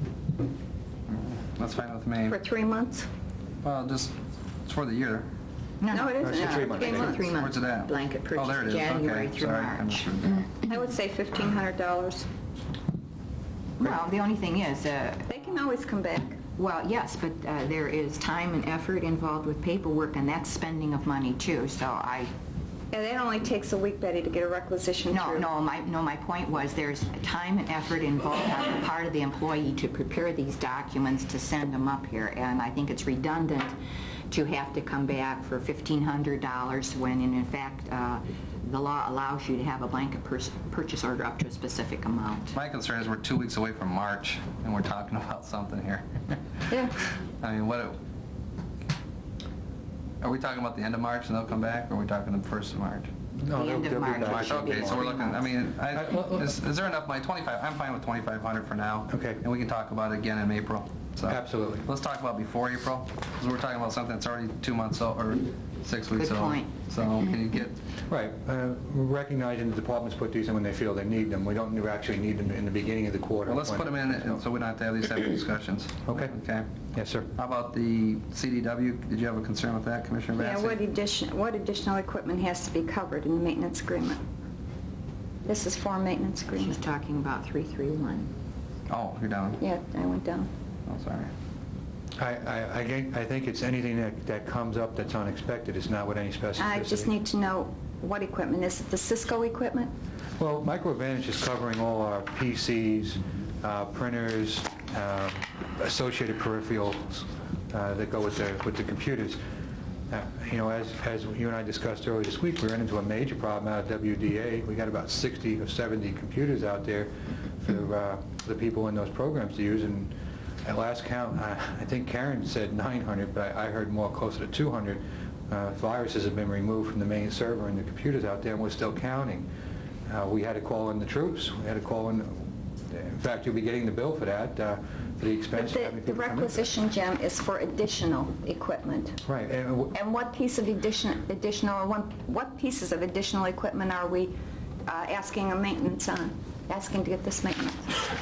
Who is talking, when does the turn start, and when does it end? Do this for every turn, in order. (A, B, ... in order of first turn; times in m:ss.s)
0:01.1-0:02.4 A
0:02.3-0:03.1 B
0:03.6-0:05.3 A
0:05.8-0:10.1 C
0:05.9-0:07.3 B
0:06.2-0:07.2 D
0:07.3-0:10.5 A
0:10.7-0:12.3 B
0:13.8-0:15.4 C
0:15.3-0:16.4 B
0:16.5-0:22.3 C
0:22.9-0:25.5 B
0:25.1-0:33.8 C
0:34.3-0:42.6 C
0:42.5-0:46.6 A
0:46.7-0:46.9 B
0:47.4-0:48.0 A
0:50.2-0:53.1 A
0:53.4-0:55.1 D
0:53.5-0:55.5 C
0:54.2-1:07.8 A
0:56.0-0:56.4 D
0:59.1-0:59.4 D
1:01.3-1:01.9 D
1:06.2-1:06.8 C
1:08.1-1:14.4 D
1:13.5-1:16.7 A
1:16.1-1:16.4 D
1:16.9-1:17.3 D
1:17.4-1:20.8 A
1:20.4-1:24.2 B
1:25.5-1:26.8 B
1:26.6-1:28.3 C
1:28.9-1:29.6 A
1:29.6-1:30.5 B
1:30.9-1:31.3 A
1:32.2-1:37.1 D
1:36.6-1:39.9 B
1:40.4-1:49.4 D
1:50.1-2:09.5 D
2:10.1-2:16.7 D
2:15.5-2:19.2 B
2:19.2-2:20.0 D
2:19.9-2:24.3 B
2:24.9-2:28.0 B